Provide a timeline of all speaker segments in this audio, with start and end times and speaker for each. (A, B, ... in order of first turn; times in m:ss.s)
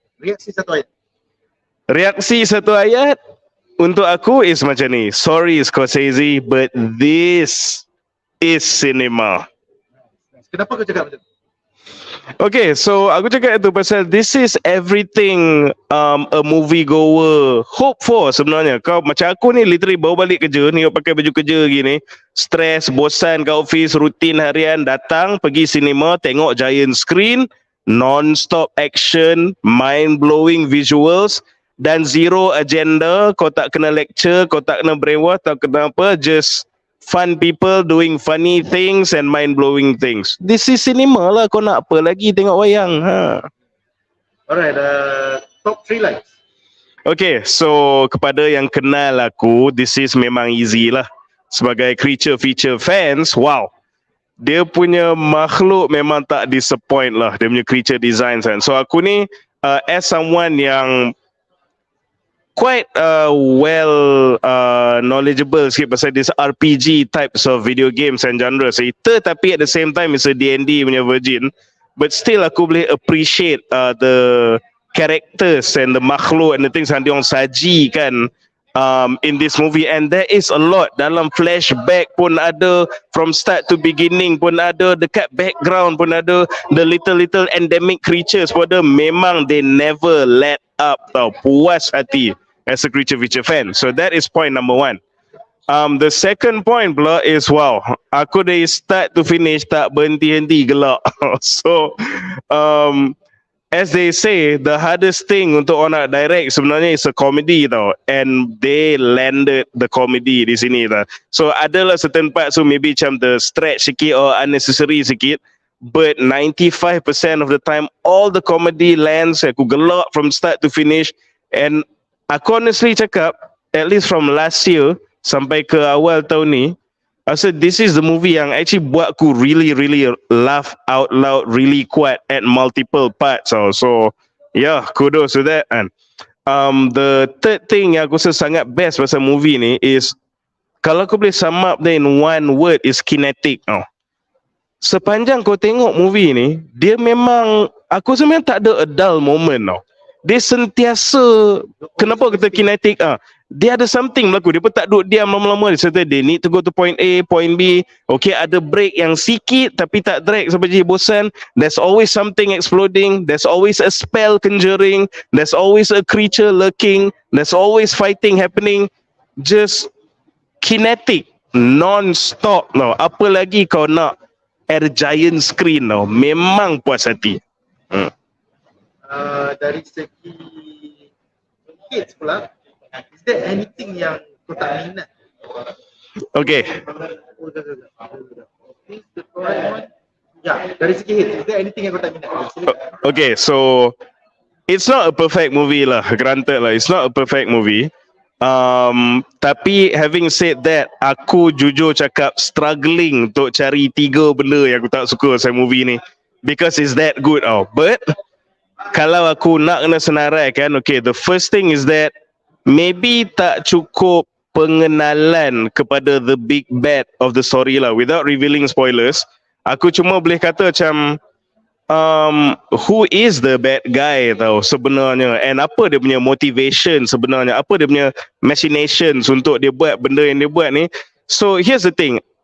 0:00.2-0:00.9 A
0:01.9-0:03.2 B
0:03.8-0:07.8 B
0:08.4-0:09.4 B
0:10.4-0:11.2 A
0:12.4-0:43.5 B
0:44.5-0:46.3 A
0:47.0-0:53.7 B
0:54.4-1:01.1 B
1:02.5-1:35.0 B
1:35.7-1:43.2 B
1:43.7-2:06.8 B
2:07.3-2:15.9 B
2:16.5-2:20.1 B
2:20.8-2:23.8 B
2:24.8-2:49.9 B
2:31.8-2:32.7 A
2:50.6-2:54.1 B
2:54.7-2:58.1 B
2:59.1-3:01.0 A
3:01.9-3:02.5 A
3:03.1-3:05.1 A
3:06.3-3:06.8 B
3:06.6-3:09.9 A
3:10.4-3:12.8 A
3:12.7-3:13.9 B
3:14.7-3:17.9 B
3:18.4-3:28.0 B
3:28.9-3:32.1 B
3:32.6-3:41.2 B
3:41.9-3:52.2 B